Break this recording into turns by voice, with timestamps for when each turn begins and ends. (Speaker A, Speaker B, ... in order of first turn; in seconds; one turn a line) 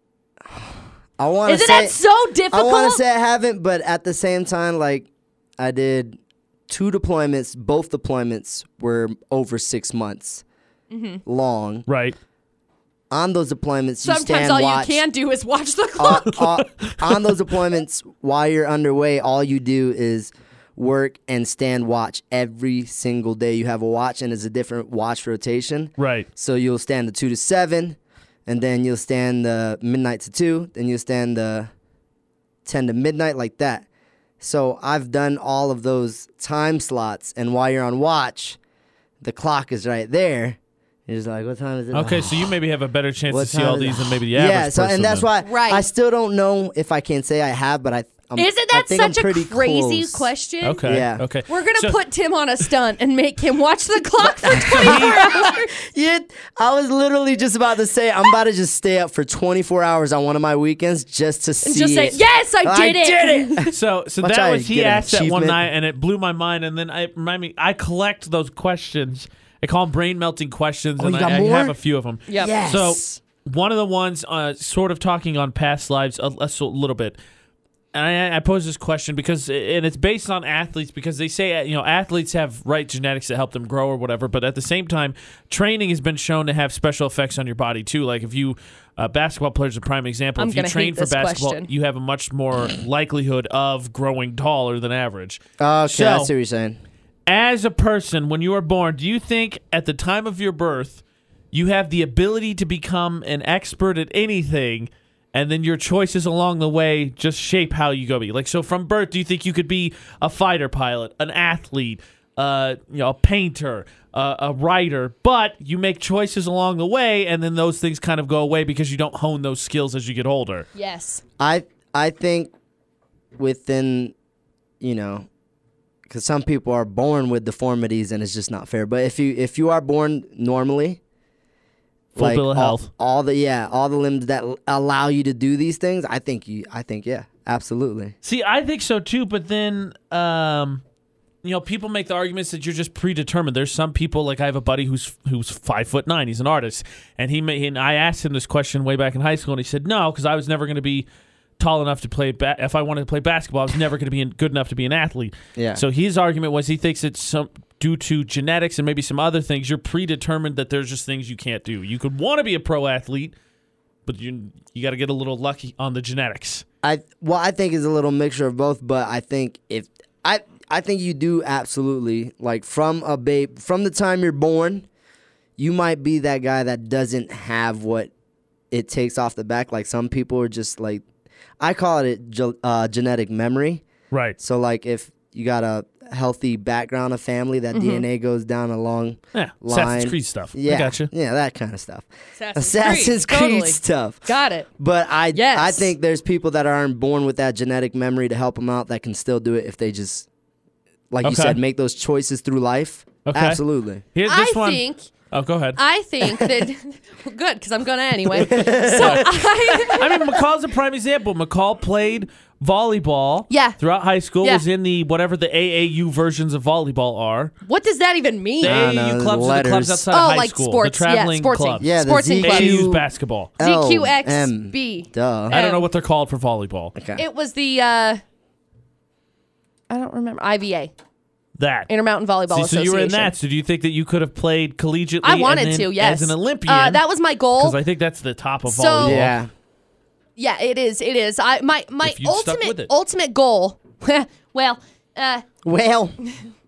Speaker A: 0.5-2.0
Speaker B: 1.5-3.0
Speaker A: 2.5-5.1
Speaker A: 5.6-6.2
Speaker A: 6.7-10.4
Speaker B: 10.9-11.2
Speaker A: 11.2-11.9
Speaker C: 11.9-12.2
Speaker A: 13.1-15.0
Speaker B: 14.0-16.5
Speaker A: 16.0-31.7
Speaker C: 16.1-17.3
Speaker C: 26.0-26.3
Speaker A: 32.6-33.9
Speaker A: 34.4-38.6
Speaker A: 39.2-42.5
Speaker C: 41.9-45.3
Speaker A: 43.3-50.3
Speaker B: 45.4-45.9
Speaker B: 48.4-50.9
Speaker C: 50.6-52.0
Speaker A: 50.9-51.2
Speaker B: 51.5-55.7
Speaker A: 54.5-65.6
Speaker C: 54.5-55.3
Speaker B: 61.6-63.7
Speaker C: 63.7-77.2
Speaker A: 71.0-71.8
Speaker B: 72.3-72.5
Speaker A: 72.3-73.2
Speaker C: 77.9-96.3
Speaker B: 90.4-91.7
Speaker A: 95.6-96.8
Speaker C: 97.3-120.7
Speaker B: 120.8-121.2
Speaker A: 121.4-122.5
Speaker A: 123.4-124.1
Speaker A: 124.8-125.3
Speaker A: 126.1-131.0
Speaker C: 132.2-132.9
Speaker A: 132.2-138.2
Speaker C: 138.2-140.8
Speaker C: 141.4-151.1
Speaker C: 151.6-163.3
Speaker A: 155.6-155.8
Speaker C: 164.1-166.7
Speaker A: 166.8-174.9
Speaker A: 175.6-178.1
Speaker A: 178.7-181.0
Speaker A: 181.6-183.8
Speaker C: 184.1-184.4
Speaker A: 184.4-194.3
Speaker B: 187.7-188.0
Speaker C: 189.3-191.1
Speaker B: 192.4-194.7
Speaker A: 194.8-200.3
Speaker B: 195.3-195.9
Speaker A: 201.1-204.0
Speaker C: 201.2-201.6
Speaker C: 203.2-203.6
Speaker C: 204.1-205.8
Speaker B: 204.2-205.1
Speaker B: 205.8-210.4
Speaker A: 206.2-206.7
Speaker A: 208.3-209.4
Speaker C: 208.4-217.5
Speaker B: 213.5-213.8
Speaker B: 217.6-218.8
Speaker A: 218.6-220.1
Speaker C: 218.6-221.9
Speaker B: 220.1-222.9
Speaker A: 221.8-223.1
Speaker C: 222.4-223.5
Speaker A: 223.6-225.6
Speaker B: 223.6-225.9
Speaker C: 225.5-226.9
Speaker A: 226.9-227.2
Speaker B: 227.2-228.2
Speaker B: 229.9-230.9
Speaker C: 231.6-231.9
Speaker B: 231.9-233.3
Speaker C: 232.5-237.0
Speaker B: 235.2-237.8
Speaker C: 237.6-239.4
Speaker B: 238.7-239.2
Speaker A: 239.0-239.5
Speaker B: 240.4-245.4
Speaker C: 242.0-242.9
Speaker A: 245.6-246.2